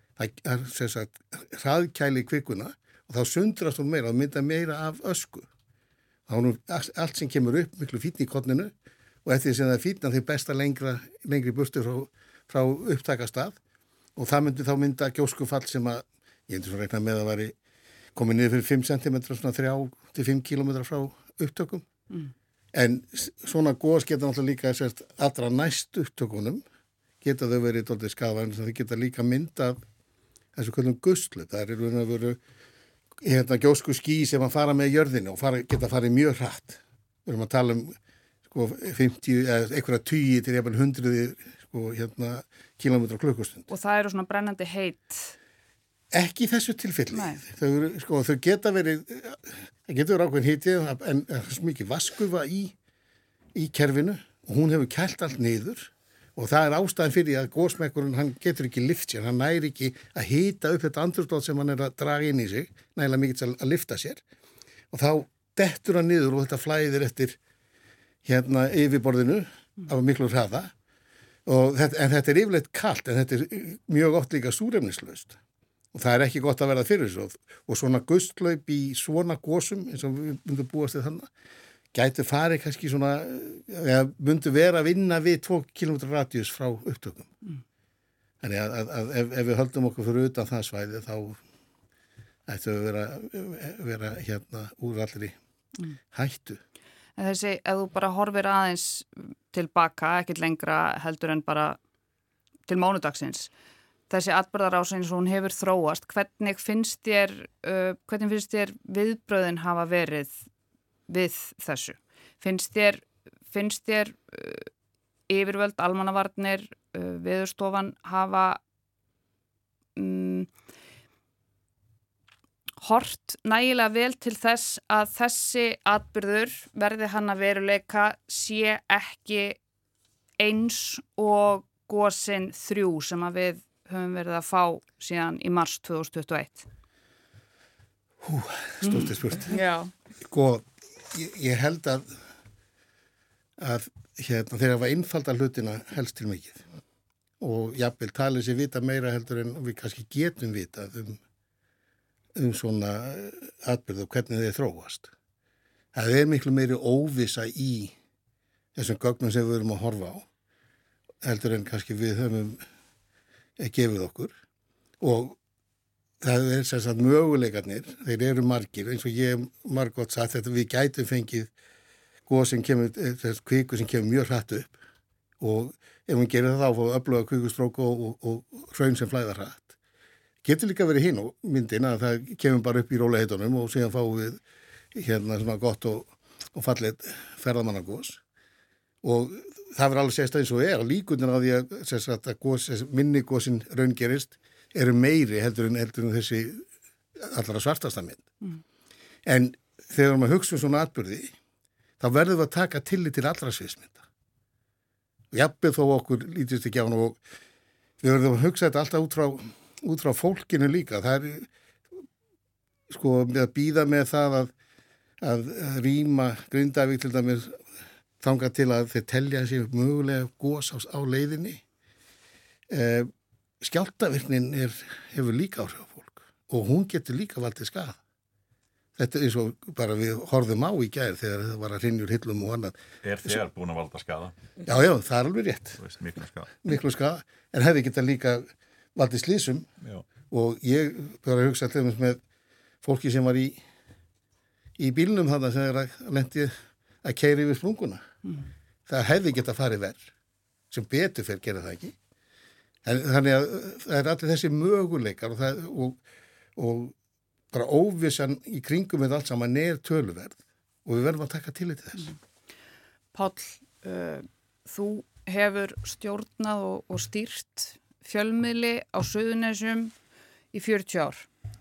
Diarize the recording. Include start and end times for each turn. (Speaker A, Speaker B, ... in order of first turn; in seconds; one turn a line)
Speaker A: 0.2-5.5
Speaker A: 6.3-8.7
Speaker A: 9.2-13.6
Speaker A: 14.2-17.5
Speaker A: 18.1-21.9
Speaker A: 22.7-26.6
Speaker A: 27.2-29.8
Speaker A: 30.5-32.4
Speaker A: 33.2-38.0
Speaker A: 38.5-43.7
Speaker B: 43.7-45.3
Speaker A: 46.1-52.7
Speaker B: 47.1-47.4
Speaker A: 53.5-64.2
Speaker A: 64.9-67.4
Speaker A: 68.2-70.7
Speaker A: 71.5-75.4
Speaker A: 75.9-81.3
Speaker A: 81.9-87.3
Speaker A: 88.4-91.4
Speaker A: 92.5-95.3
Speaker A: 96.1-96.6
Speaker B: 97.2-101.8
Speaker B: 102.7-103.5
Speaker B: 104.1-110.4
Speaker B: 111.1-114.7
Speaker B: 115.3-118.6
Speaker B: 120.0-120.5
Speaker B: 122.8-129.6
Speaker B: 130.4-136.7
Speaker A: 138.2-139.6
Speaker B: 138.8-139.9
Speaker A: 140.2-142.2
Speaker A: 143.6-146.6
Speaker A: 147.4-151.2
Speaker A: 152.3-155.1
Speaker A: 155.9-157.9
Speaker A: 158.7-160.3
Speaker A: 161.2-162.6
Speaker A: 163.6-164.3
Speaker A: 165.0-165.4
Speaker A: 166.2-171.5
Speaker A: 172.3-174.8
Speaker A: 175.4-179.8
Speaker A: 180.4-184.4
Speaker A: 184.9-188.2
Speaker A: 189.0-198.3
Speaker A: 199.2-201.3
Speaker A: 202.0-204.0
Speaker A: 205.3-207.2
Speaker A: 208.0-211.5
Speaker A: 212.9-214.5
Speaker A: 215.2-217.7
Speaker A: 218.2-221.6
Speaker A: 222.7-228.0
Speaker A: 228.9-233.3
Speaker C: 233.0-234.3
Speaker A: 234.7-235.8
Speaker C: 235.8-236.5
Speaker A: 236.6-239.7
Speaker A: 240.3-242.2
Speaker A: 242.8-243.6
Speaker A: 244.8-248.0
Speaker A: 248.9-250.1
Speaker A: 250.7-251.9
Speaker A: 252.8-256.0
Speaker A: 256.6-256.9
Speaker A: 257.5-262.1
Speaker B: 263.1-269.9
Speaker B: 270.5-271.3